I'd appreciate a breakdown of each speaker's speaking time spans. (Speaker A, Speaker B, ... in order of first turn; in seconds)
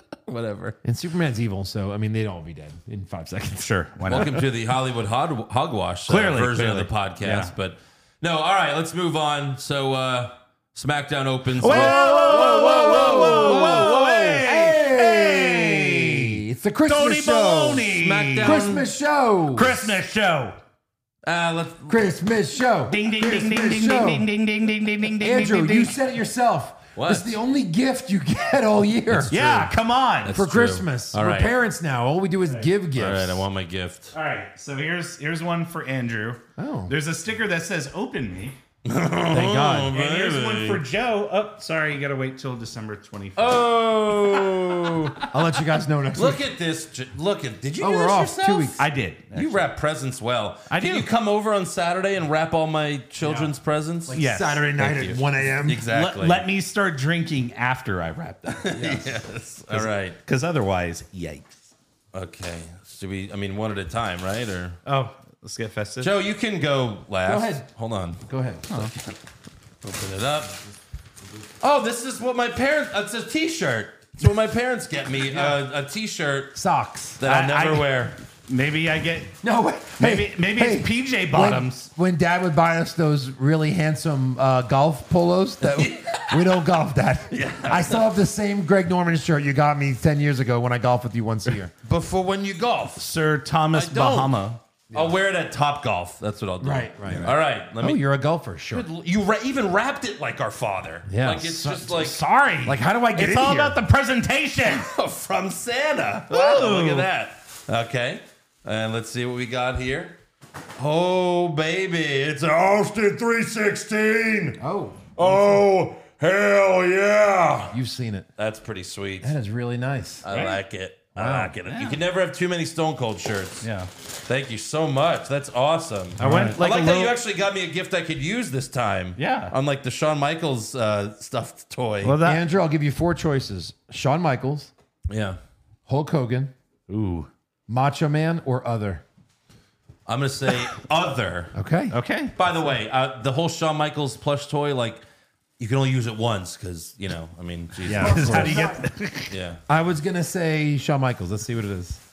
Speaker A: 0.3-0.8, 4.1-14.4, 17.9-18.9, 21.2-22.1, 27.0-27.4, 29.1-31.5, 33.0-34.1, 38.9-40.8, 43.4-45.2, 46.1-48.8, 49.3-54.1, 54.8-55.1, 55.6-56.5, 58.5-60.2, 62.1-64.8, 66.0-68.2, 69.8-70.7, 71.6-76.6, 77.2-78.2, 85.6-86.7, 87.3-88.1, 91.8-93.1, 93.7-98.0, 98.7-102.2, 104.7-110.2, 110.8-114.6, 115.2-117.8, 118.4-119.3, 120.2-123.7, 124.3-132.2, 135.1-135.4, 140.1-141.5, 142.4-145.1, 145.6-149.6
Speaker B: 0.8-4.2, 11.6-17.9, 18.4-19.9, 21.9-24.3, 25.2-29.5, 30.3-33.4, 36.6-36.9, 39.3-39.9, 45.3-46.5, 47.8-48.8, 53.2-53.5, 54.1-55.8, 58.8-59.1, 67.2-67.7, 68.3-68.9, 76.5-77.2, 79.4-91.7, 96.6-98.9, 101.1-101.9, 102.7-103.8, 114.6-115.4, 117.7-118.3, 119.2-120.3, 121.2-121.5, 126.2-126.6, 132.2-134.7, 135.9-136.5, 137.7-139.0, 141.5-141.9, 147.9-148.8, 149.7-152.0
Speaker C: 3.6-4.3, 6.1-7.5, 11.6-18.7, 19.5-20.6, 22.9-26.0, 29.3-30.4, 34.1-38.6, 39.9-45.3, 48.8-49.6, 50.7-51.1, 54.1-55.2, 55.9-58.9, 59.7-61.6, 64.8-66.1, 77.2-79.4, 80.0-81.9, 93.0-94.6, 97.1-97.3, 101.8-104.9, 106.3-107.1, 120.3-120.6, 121.7-122.0, 123.6-123.9, 126.2-127.2, 129.2-129.5, 132.0-132.4, 136.9-137.3, 141.9-142.4, 147.9-149.3